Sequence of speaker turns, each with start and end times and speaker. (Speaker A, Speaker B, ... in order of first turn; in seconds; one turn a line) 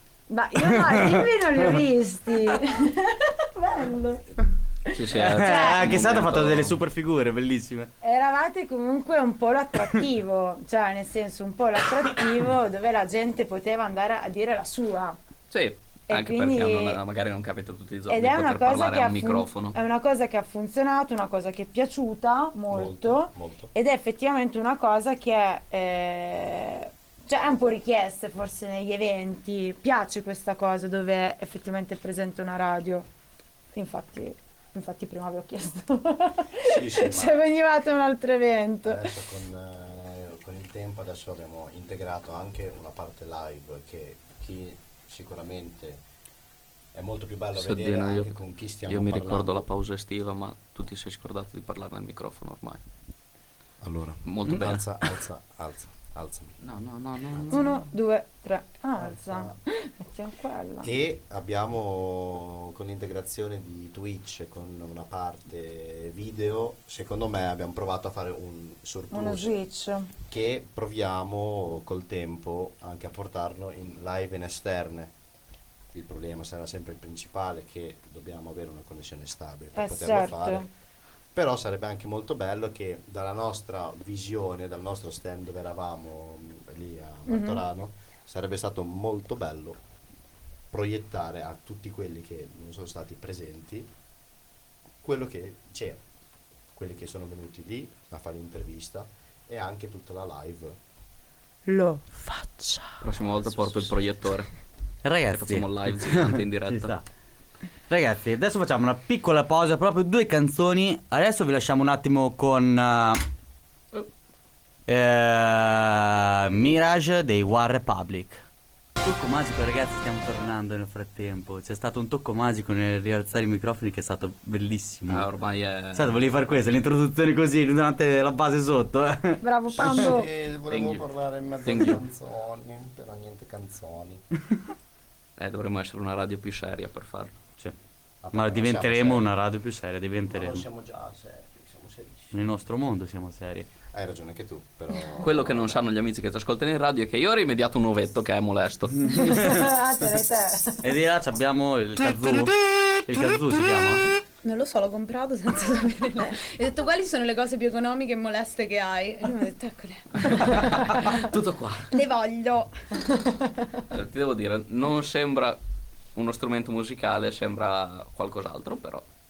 Speaker A: 0.3-6.0
Speaker B: 0.6-1.8
Speaker C: 4.9-6.8
Speaker B: 5.1-7.9
Speaker A: 8.0-15.2
Speaker C: 15.5-19.8
Speaker A: 16.1-17.0
Speaker A: 18.1-33.1
Speaker D: 22.7-23.7
Speaker A: 33.7-39.0
Speaker D: 36.6-37.4
Speaker D: 38.8-46.0
Speaker D: 46.9-49.6
Speaker C: 47.5-52.8
Speaker D: 53.8-56.5
Speaker C: 54.2-55.1
Speaker C: 56.6-57.8
Speaker A: 57.5-60.9
Speaker D: 59.0-59.6
Speaker D: 60.8-69.5
Speaker A: 69.1-70.1
Speaker D: 70.3-75.1
Speaker D: 75.9-80.7
Speaker A: 79.7-80.7
Speaker D: 81.3-89.8
Speaker A: 87.2-87.6
Speaker D: 90.7-93.9
Speaker D: 95.0-96.0
Speaker D: 96.7-100.8
Speaker A: 101.7-103.0
Speaker C: 103.0-104.5
Speaker B: 105.0-107.0
Speaker C: 105.3-106.9
Speaker B: 107.9-113.2
Speaker B: 114.8-118.4
Speaker B: 119.0-125.3
Speaker C: 125.1-126.4
Speaker B: 125.9-129.9
Speaker A: 129.4-130.3
Speaker D: 129.7-134.2
Speaker C: 130.7-131.0
Speaker C: 131.6-132.0
Speaker C: 135.4-137.3
Speaker D: 138.2-139.2
Speaker B: 138.3-140.7
Speaker D: 140.3-142.3
Speaker B: 142.3-143.7
Speaker D: 143.9-145.8
Speaker C: 145.2-149.3
Speaker A: 149.1-150.8
Speaker B: 149.2-149.6
Speaker B: 150.8-154.1
Speaker E: 154.4-160.7
Speaker C: 160.3-161.9
Speaker A: 160.4-160.8
Speaker E: 161.9-162.7
Speaker A: 163.2-163.5
Speaker C: 163.9-165.6
Speaker C: 166.1-169.0